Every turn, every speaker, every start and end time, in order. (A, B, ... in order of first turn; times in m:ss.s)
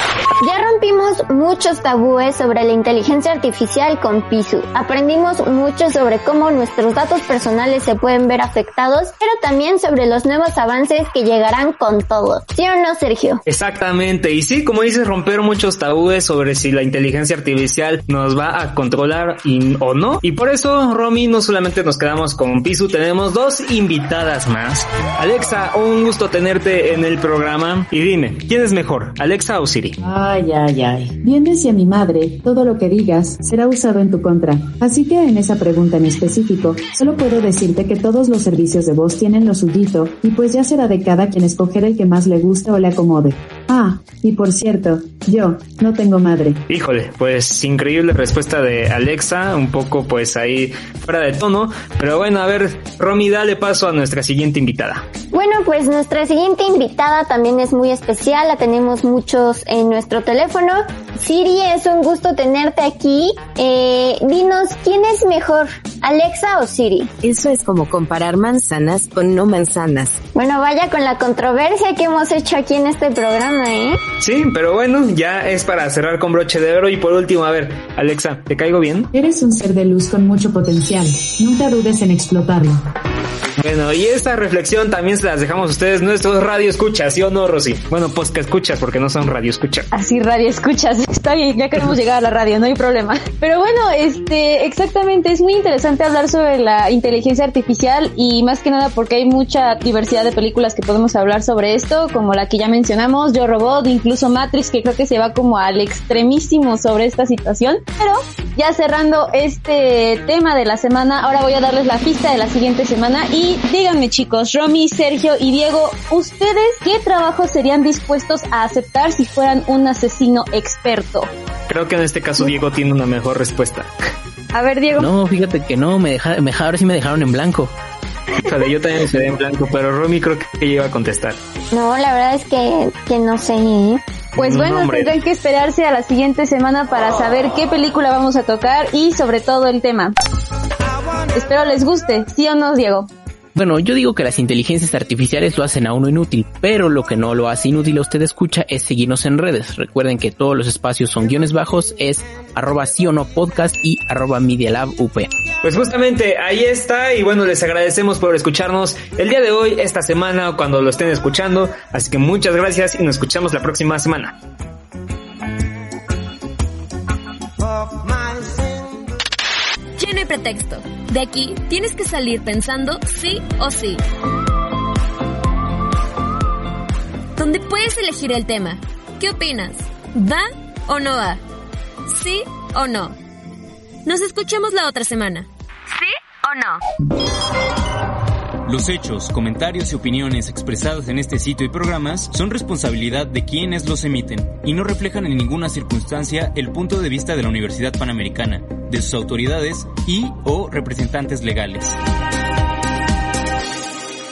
0:00.4-0:13.4 A
0:13.5-0:30.0 B
0:30.0-0:46.6 C
0:46.7-0:55.0 B
0:55.3-1:07.1 A
1:07.2-1:10.2 D
1:10.3-1:14.0 A
1:14.2-1:19.1 B
1:19.1-1:22.8 C
1:23.6-1:29.9 B
1:29.9-2:01.3 E
2:01.7-2:03.9 B
2:04.5-2:05.1 E
2:05.0-2:07.7 F
2:08.4-2:11.4 B
2:11.7-2:14.0 A
2:14.4-2:15.1 B
2:14.4-2:20.1 E
2:21.3-2:23.1 E
2:23.5-2:35.3 F
2:35.6-2:44.3 B
2:50.0-2:54.0 G
2:57.4-3:01.4 G
3:02.0-3:03.2 G
3:04.0-3:06.8 G
3:08.6-3:22.0 H